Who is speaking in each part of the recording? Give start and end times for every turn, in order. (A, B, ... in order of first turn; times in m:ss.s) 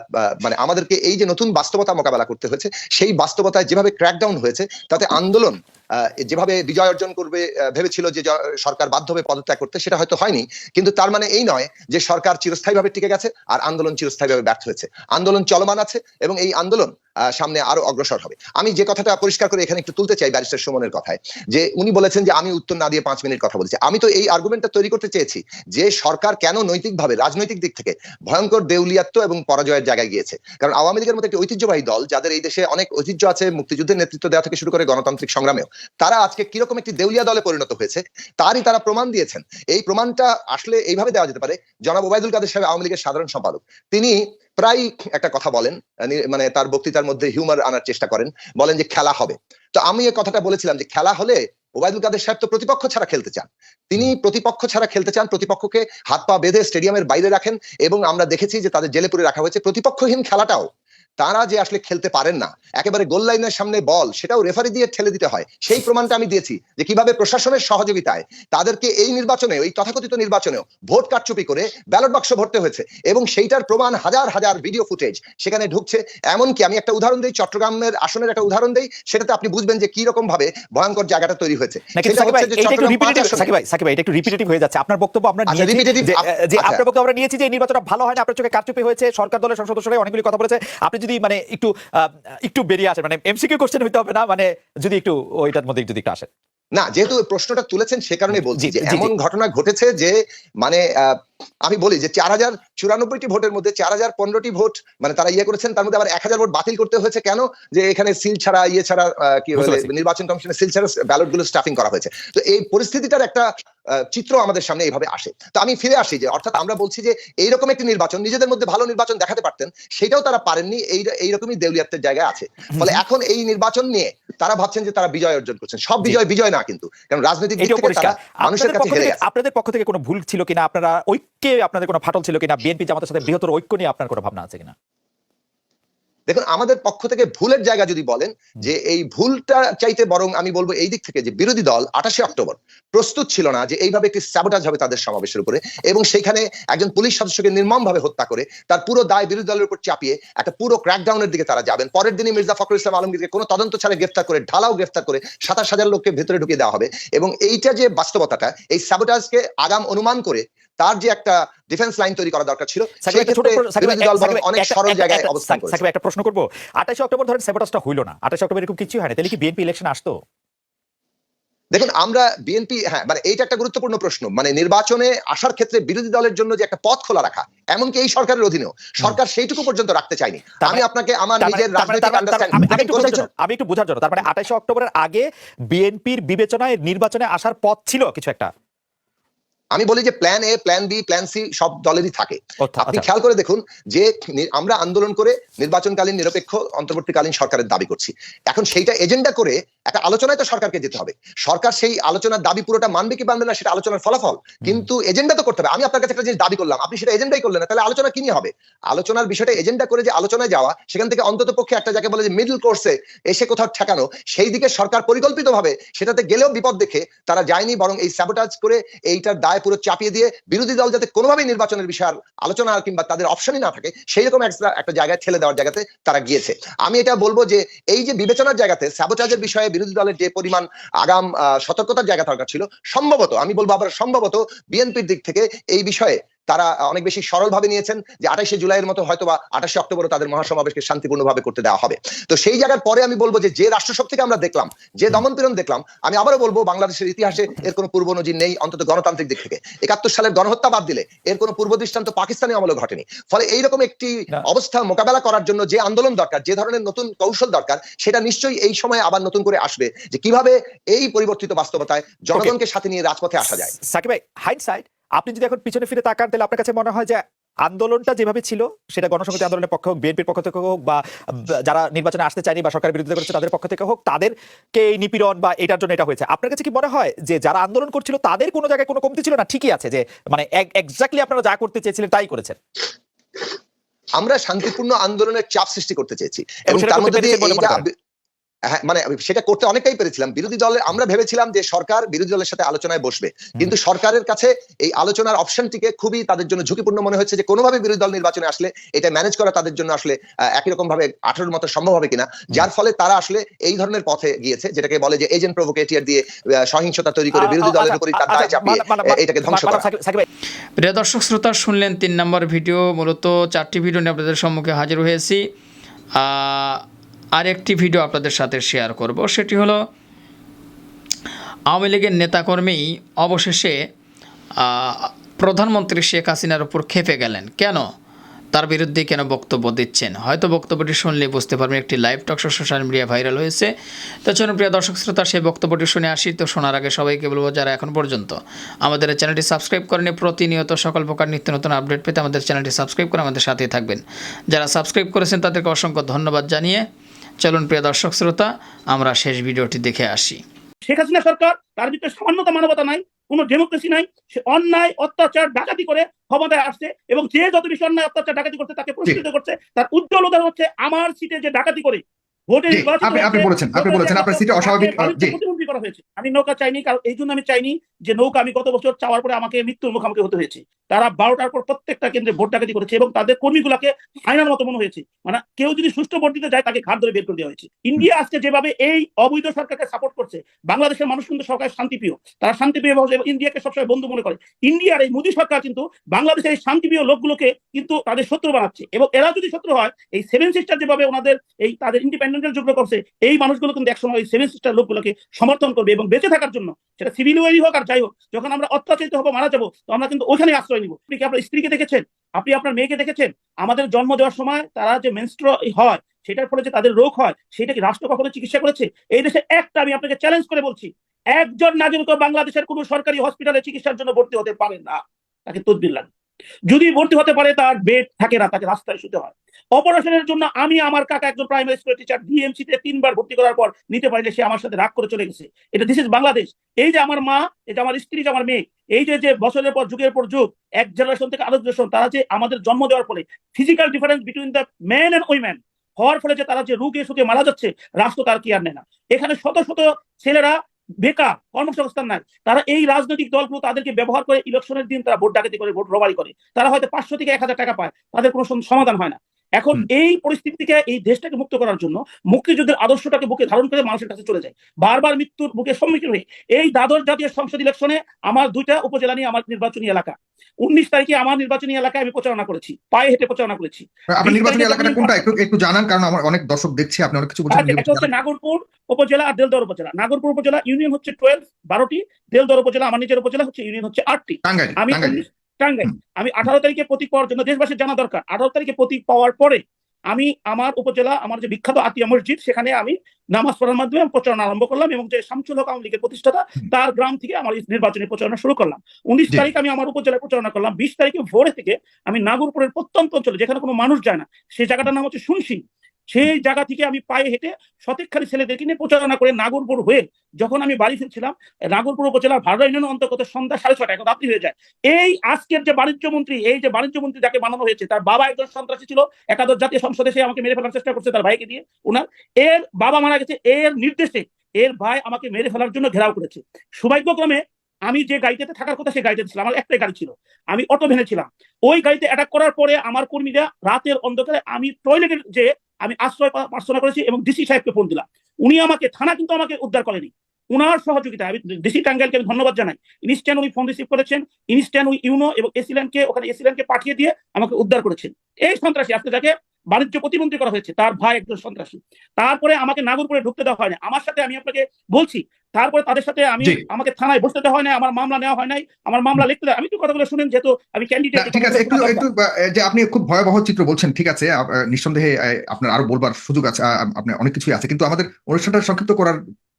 0:00.2-1:00.7 A
1:01.2-1:23.5 A
1:22.0-1:36.3 B
1:25.5-1:26.8 A
1:36.7-1:53.5 A
1:38.3-1:39.1 B
1:49.6-1:49.9 B
1:54.1-2:09.2 A
2:07.6-2:14.7 B
2:16.3-2:45.8 A
2:43.0-2:50.1 B
2:51.7-3:03.2 A
3:01.4-3:08.5 B
3:09.7-4:23.7 A
3:12.6-3:13.1 B
4:23.6-4:31.0 B
4:31.6-4:42.6 B
4:44.2-4:47.9 A
4:46.7-4:47.8 B
4:48.7-5:09.8 A
5:07.3-5:10.3 B
5:10.8-5:15.4 C
5:16.2-5:16.8 C
5:17.4-5:19.8 C
5:21.7-5:23.8 C
5:24.6-5:27.8 C
5:28.5-5:33.7 C
5:34.2-5:46.8 C
5:47.4-5:50.4 C
5:50.8-6:56.1 D
6:02.7-6:05.4 E
6:56.7-7:45.3 D
7:44.1-7:48.1 E
7:47.5-9:12.0 D
7:54.4-7:55.2 E
9:06.4-9:06.6 E
9:11.1-9:19.2 E